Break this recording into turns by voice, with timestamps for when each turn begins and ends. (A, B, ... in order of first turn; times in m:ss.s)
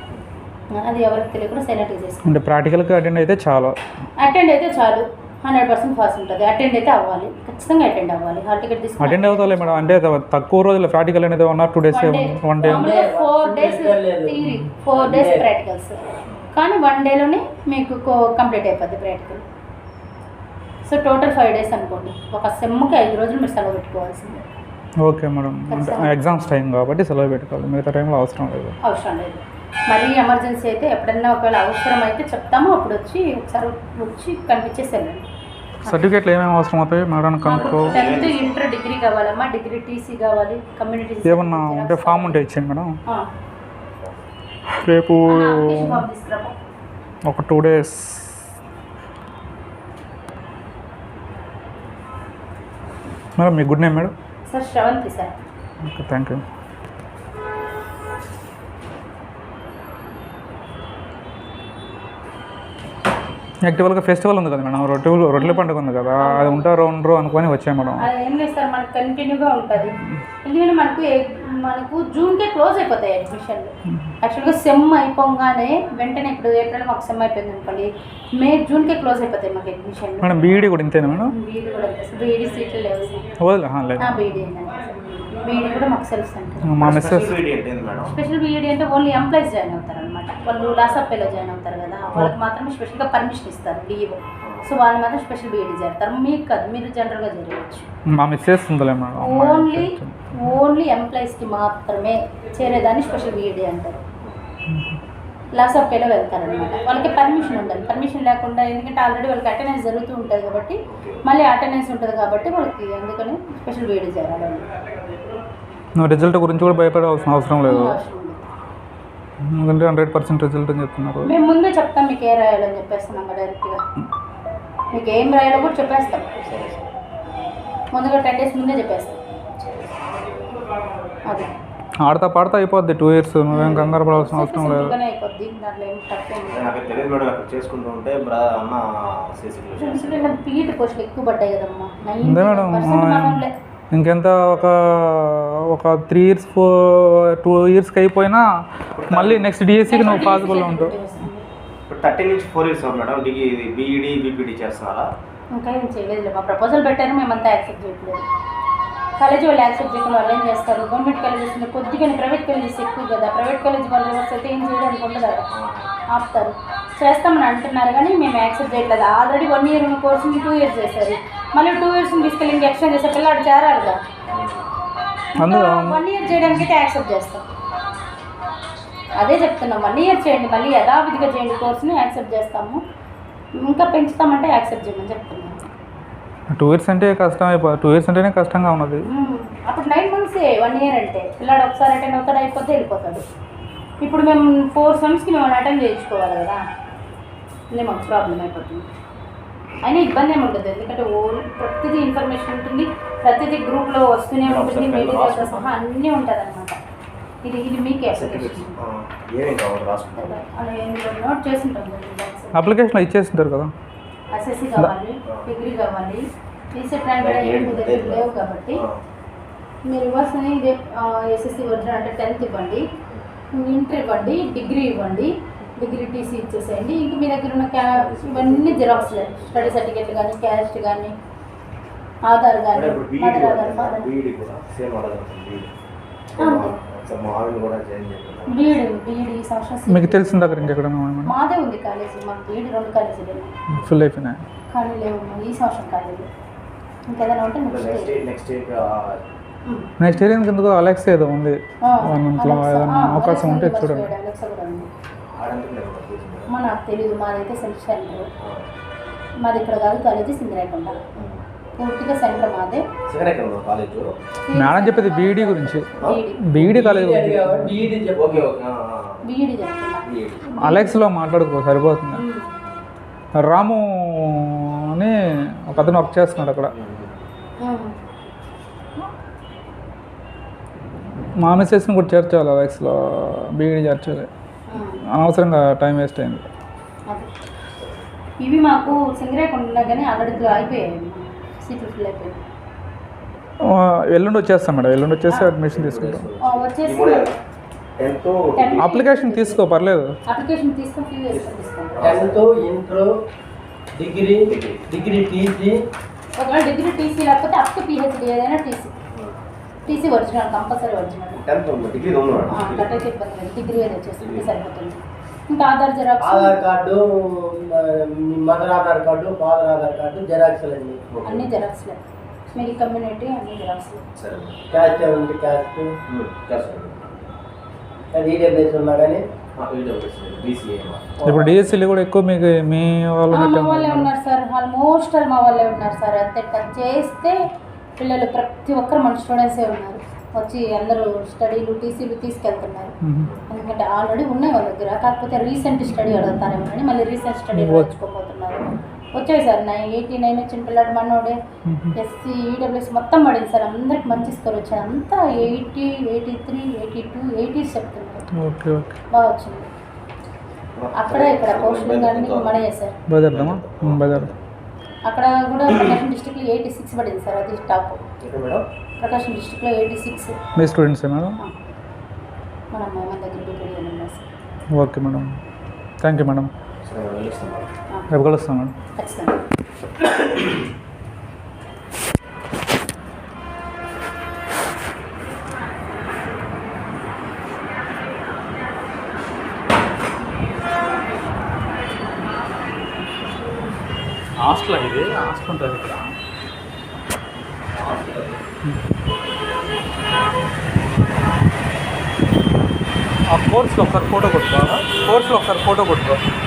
0:00.7-0:02.3 A
0:02.3-0:03.8 B
0:04.2-0:10.0 A
0:09.0-0:13.0 B
0:11.9-0:16.0 A
0:12.6-0:15.5 C
0:16.5-0:19.4 A
0:20.8-0:24.4 A
0:25.0-0:28.8 B
0:25.7-0:26.1 A
0:28.8-0:35.3 A
0:35.8-0:38.0 B
0:37.4-0:42.4 A
0:37.6-0:38.6 D
0:41.3-0:42.9 B
0:43.9-0:44.2 D
0:44.8-0:46.0 B
0:45.2-0:46.6 A
0:47.3-0:48.4 B
0:53.4-0:54.1 B
0:54.5-0:55.4 A
0:55.8-0:56.4 B
1:03.6-1:08.1 B
1:05.4-1:05.7 A
1:06.2-1:06.7 A
1:08.0-1:20.4 A
1:20.2-1:21.3 B
1:21.3-1:23.2 A
1:23.4-1:24.2 B
1:24.0-1:26.8 A
1:26.7-1:27.4 B
1:26.8-1:28.2 D
1:28.0-1:37.9 A
1:38.1-1:40.6 B
1:39.2-1:44.0 A
1:44.7-1:45.0 B
1:45.5-1:54.7 A
1:50.9-1:51.2 D
1:56.0-1:58.0 B
1:57.6-1:58.5 A
1:59.5-2:01.3 B
2:01.2-2:03.8 A
2:04.9-2:06.4 A
2:06.4-2:06.9 D
2:07.9-2:09.2 A
2:09.6-2:10.6 D
2:11.3-2:11.5 A
2:12.0-2:14.9 B
2:13.5-2:17.1 A
2:13.6-2:14.2 D
2:16.5-2:20.4 D
2:19.8-2:23.5 A
2:22.2-2:28.4 B
2:29.0-2:29.5 D
2:29.1-2:31.0 B
2:29.9-2:31.5 A
2:30.0-2:30.6 D
2:31.9-2:35.1 D
2:35.5-2:38.3 A
2:39.2-2:45.4 A
2:45.5-2:45.9 D
2:46.1-2:54.0 A
2:54.3-2:54.7 D
2:55.4-2:57.4 A
2:55.4-2:56.0 B
2:59.2-3:02.8 A
3:03.6-3:05.6 A
3:06.6-3:09.1 B
3:09.1-3:13.2 A
3:14.0-3:16.6 A
3:17.7-3:18.9 A
3:19.8-3:26.8 A
3:24.4-3:25.7 D
3:27.4-3:28.8 A
3:28.1-3:30.4 D
3:30.2-3:32.6 A
3:32.6-3:33.7 B
3:34.3-3:38.8 A
3:37.2-3:39.0 D
3:39.9-3:42.8 A
3:43.5-3:51.1 A
3:47.9-3:49.8 D
3:52.3-3:54.1 A
3:52.7-3:55.7 D
3:56.4-3:58.9 D
3:56.4-3:56.8 A
3:58.5-4:00.8 A
3:59.9-4:01.3 B
4:01.3-4:03.5 A
4:03.7-4:04.4 B
4:04.7-4:06.3 A
4:07.1-4:08.2 A
4:07.7-4:09.2 D
4:10.0-4:14.1 B
4:11.8-4:14.9 A
4:15.3-4:16.5 D
4:16.5-4:18.3 A
4:18.4-4:18.7 D
4:19.4-4:21.1 A
4:21.2-4:21.4 D
4:21.8-4:22.8 A
4:23.1-4:24.2 D
4:24.5-4:26.4 A
4:24.5-4:27.7 B
4:26.6-4:28.4 C
4:28.1-4:29.2 D
4:29.2-4:31.0 A
4:30.0-4:30.5 D
4:30.6-4:32.2 B
4:32.1-4:32.5 A
4:33.4-4:35.1 B
4:35.7-4:36.7 B
4:35.7-4:36.1 A
4:36.7-4:37.2 D
4:37.6-4:37.9 A
4:41.4-4:44.3 B
4:44.7-4:45.0 A
4:45.1-4:46.4 B
4:47.8-4:48.0 D
4:48.4-4:52.4 A
4:53.6-4:56.3 B
4:55.7-4:57.3 D
4:56.4-4:57.4 A
4:58.0-4:58.9 D
4:58.6-4:59.6 A
4:58.8-5:00.1 B
5:00.3-5:02.0 A
5:01.3-5:02.4 D
5:02.0-5:03.1 C
5:04.0-5:05.8 C
5:04.5-5:04.9 D
5:06.4-5:08.9 A
5:09.1-5:10.1 D
5:09.9-5:11.4 A
5:11.4-5:13.0 D
5:12.5-5:16.6 A
5:14.2-5:14.5 D
5:16.2-5:21.1 C
5:21.1-5:21.5 D
5:21.2-5:22.0 A
5:22.5-5:24.1 A
5:24.2-5:24.8 D
5:24.7-5:26.0 C
5:26.1-5:27.0 D
5:28.1-5:29.2 C
5:29.6-5:31.2 D
5:31.2-5:34.1 B
5:31.2-5:31.7 C
5:33.3-5:37.4 A
5:38.0-5:42.9 A
5:43.0-5:43.3 B
5:43.5-5:51.4 A
5:47.6-5:47.9 B
5:51.7-5:52.0 B
5:52.0-5:58.3 A
5:58.4-5:59.0 B
5:59.1-5:59.7 A
6:00.8-6:02.6 D
6:01.0-6:03.0 A
6:03.1-6:04.3 B
6:03.3-6:04.4 D
6:05.1-6:08.1 A
6:08.2-6:08.6 D
6:09.0-6:10.4 A
6:10.6-6:11.4 B
6:12.7-6:14.3 A
6:14.8-6:15.3 B
6:16.0-6:16.5 B
6:16.8-6:17.7 D
6:17.9-6:18.2 A
6:18.1-6:18.7 B
6:19.0-6:19.4 A
6:20.0-6:20.6 D
6:34.4-6:36.1 B
6:37.7-6:38.4 D
6:43.3-6:46.2 B
6:44.6-6:44.9 D